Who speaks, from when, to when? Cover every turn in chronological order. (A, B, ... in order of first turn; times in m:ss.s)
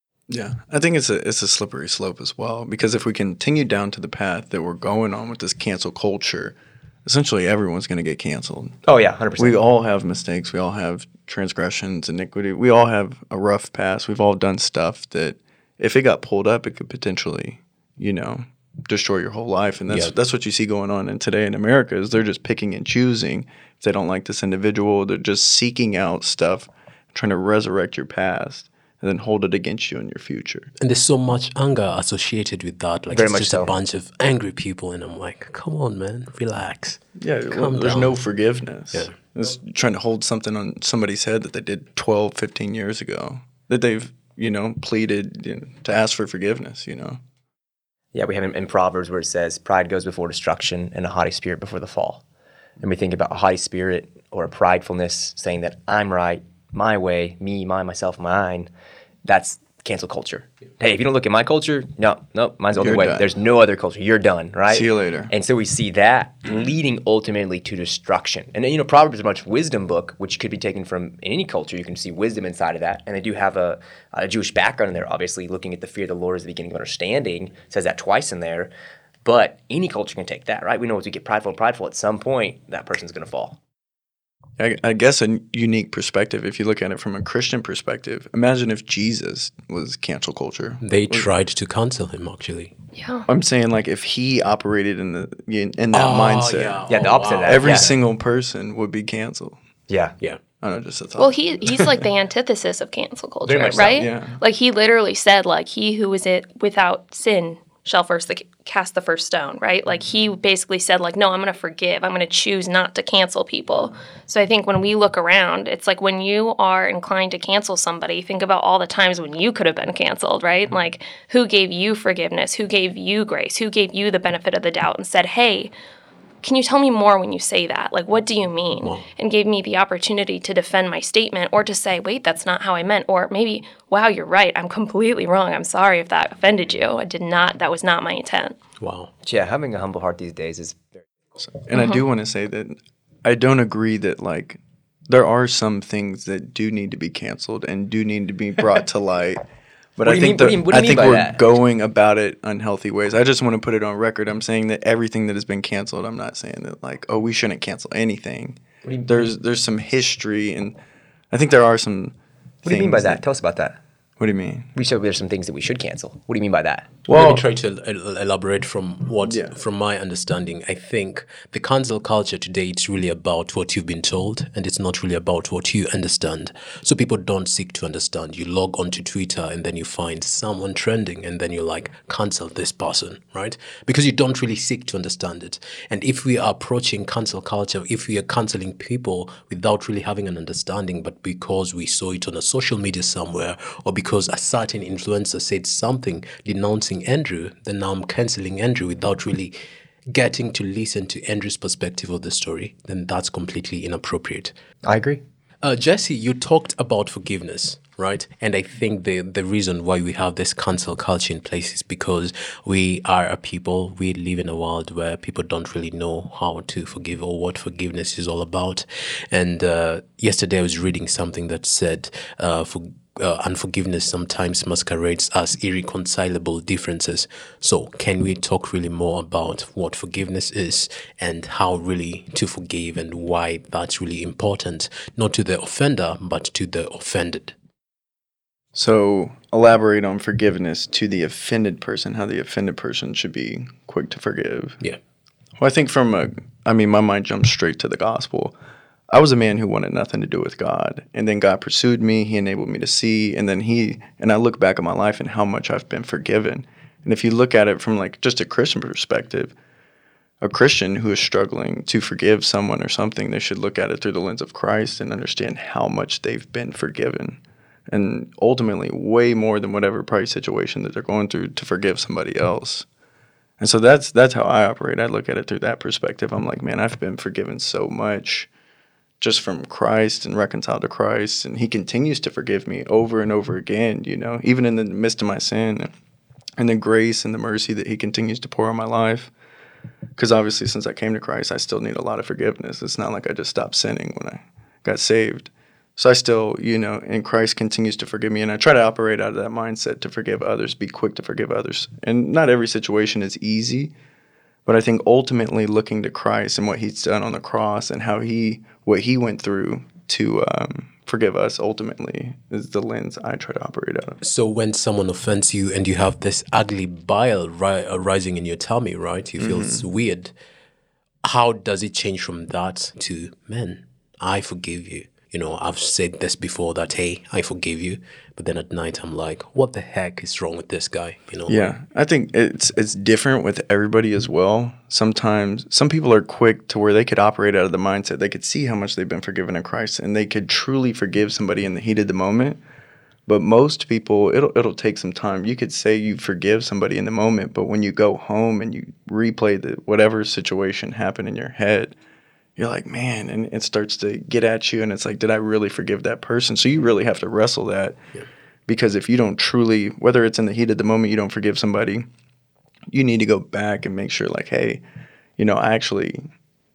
0:00.3-0:08.8 A
0:08.9-0:09.6 B
0:09.4-0:30.7 A
0:19.9-0:20.1 C
0:30.8-0:37.0 C
0:33.1-0:33.8 B
0:37.2-0:47.2 A
0:37.5-0:38.1 C
0:48.1-0:52.2 B
0:52.8-0:58.7 B
0:59.2-1:18.7 B
1:02.8-1:03.3 A
1:04.7-1:05.3 A
1:19.2-1:23.6 B
1:24.6-1:31.3 A
1:30.8-1:32.7 C
1:33.0-1:33.3 D
1:33.3-1:36.8 A
1:35.9-1:37.9 C
1:36.9-1:37.9 B
1:37.4-1:39.6 A
1:39.9-1:40.2 B
1:40.6-1:41.9 A
1:41.2-2:05.7 D
1:43.4-1:44.1 B
1:43.8-1:44.4 A
2:06.4-2:18.6 D
2:18.8-2:19.1 C
2:19.2-2:21.0 B
2:21.4-2:29.4 A
2:21.8-2:22.0 D
2:30.0-2:40.8 A
2:30.0-2:31.4 B
2:38.8-2:39.2 B
2:41.3-2:43.2 A
2:42.6-2:43.8 B
2:44.2-2:44.7 A
2:44.8-2:47.0 B
2:47.1-2:47.4 A
2:47.1-3:19.5 C
2:49.2-2:49.6 A
3:20.1-3:24.5 C
3:24.8-3:25.2 B
3:25.6-3:57.5 C
3:58.7-4:04.8 A
4:05.6-4:08.6 A
4:09.1-4:19.5 A
4:20.4-4:32.9 A
4:33.6-4:38.5 A
4:39.2-4:45.9 A
4:46.6-4:49.3 A
4:50.2-5:03.9 A
5:04.6-5:14.2 A
5:14.2-5:20.3 C
5:19.4-5:19.8 A
5:21.2-5:31.8 C
5:31.5-5:42.6 A
5:43.3-5:52.0 A
5:52.6-5:58.0 A
5:58.7-6:02.1 A
6:02.9-6:04.8 A
6:05.4-6:06.2 A